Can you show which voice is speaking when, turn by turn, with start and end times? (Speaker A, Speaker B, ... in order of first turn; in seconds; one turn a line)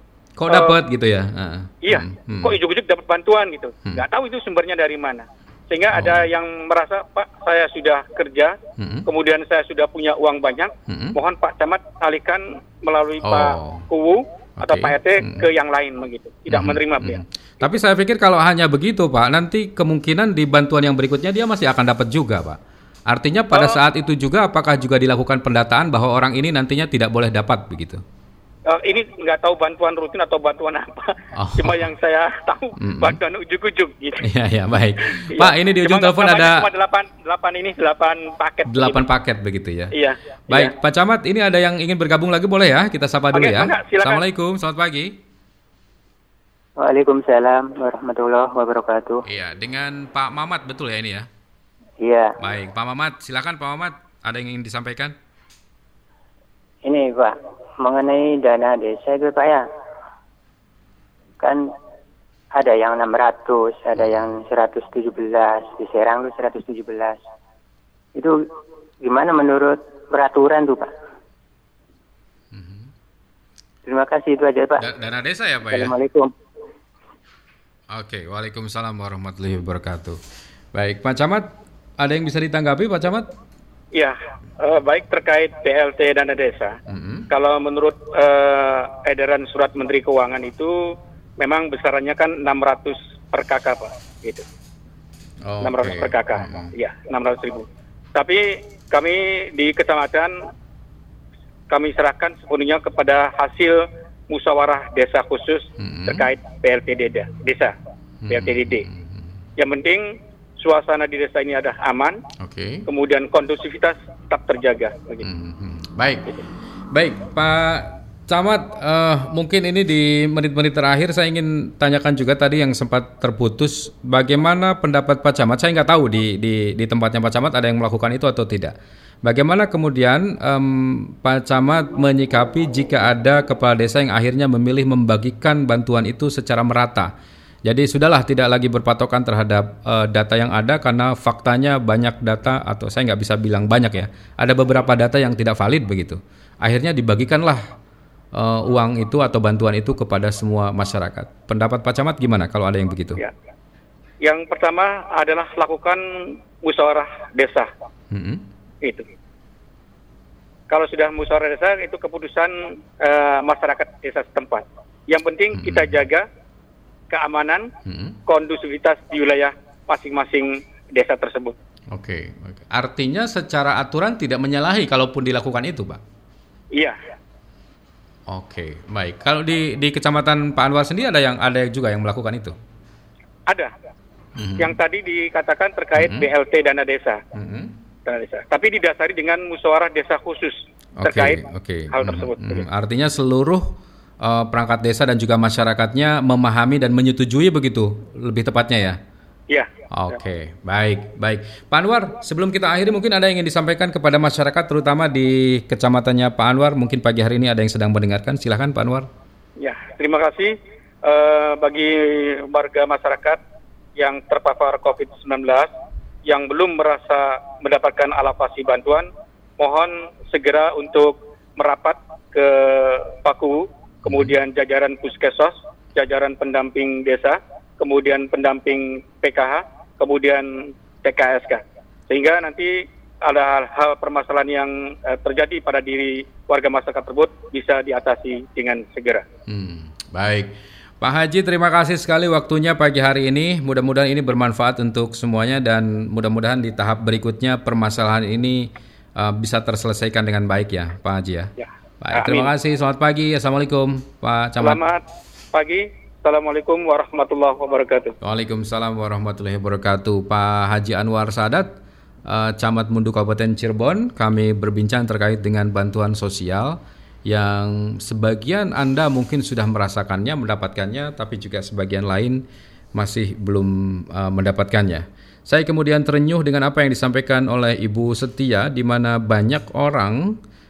Speaker A: 0.4-2.6
Speaker B: 1.8-17.7
Speaker A: 5.9-6.3
Speaker A: 8.8-9.1
Speaker A: 10.9-11.2
Speaker A: 13.2-13.9
Speaker A: 14.6-15.4
Speaker A: 16.5-28.0
Speaker B: 23.5-23.8
Speaker B: 28.7-34.2
Speaker A: 31.4-31.9
Speaker A: 32.8-33.2
Speaker A: 34.2-36.7
Speaker B: 35.0-39.0
Speaker A: 38.7-39.9
Speaker B: 39.9-40.7
Speaker A: 40.5-45.1
Speaker B: 43.3-44.2
Speaker C: 46.8-49.2
Speaker A: 49.2-51.3
Speaker C: 52.0-52.3
Speaker A: 52.4-55.1
Speaker C: 56.8-59.6
Speaker C: 62.5-67.2
Speaker C: 69.0-70.9
Speaker A: 72.5-72.9
Speaker C: 73.8-74.9
Speaker A: 74.8-75.9
Speaker C: 75.7-76.3
Speaker A: 77.9-80.2
Speaker A: 80.7-83.3
Speaker B: 83.9-86.8
Speaker A: 86.9-87.3
Speaker B: 87.3-90.7
Speaker B: 91.4-94.4
Speaker A: 95.4-96.7
Speaker B: 95.6-100.4
Speaker B: 101.7-107.7
Speaker A: 105.8-106.3
Speaker A: 108.2-109.4
Speaker B: 108.3-108.8
Speaker B: 109.6-112.2
Speaker A: 112.4-112.8
Speaker B: 112.9-115.3
Speaker A: 115.2-116.3
Speaker A: 116.9-137.1
Speaker A: 137.6-147.6
Speaker A: 148.3-153.2
Speaker B: 154.2-157.7
Speaker A: 158.1-158.4
Speaker B: 158.8-159.1
Speaker B: 160.7-166.2
Speaker A: 165.5-166.0
Speaker B: 167.1-167.7
Speaker A: 167.8-168.2
Speaker B: 168.3-171.6
Speaker A: 171.9-176.0
Speaker A: 178.3-182.5
Speaker A: 184.3-184.8
Speaker B: 184.6-187.2
Speaker A: 185.9-186.3
Speaker A: 187.3-187.8
Speaker B: 188.1-191.4
Speaker A: 191.0-199.0
Speaker B: 191.9-192.6
Speaker A: 199.9-209.1
Speaker B: 209.6-213.4
Speaker B: 213.9-215.7
Speaker B: 216.2-239.2
Speaker A: 224.0-224.3
Speaker A: 239.5-254.8
Speaker B: 251.6-252.5
Speaker B: 254.6-258.1
Speaker A: 258.2-261.7
Speaker A: 262.3-272.4
Speaker A: 272.9-280.3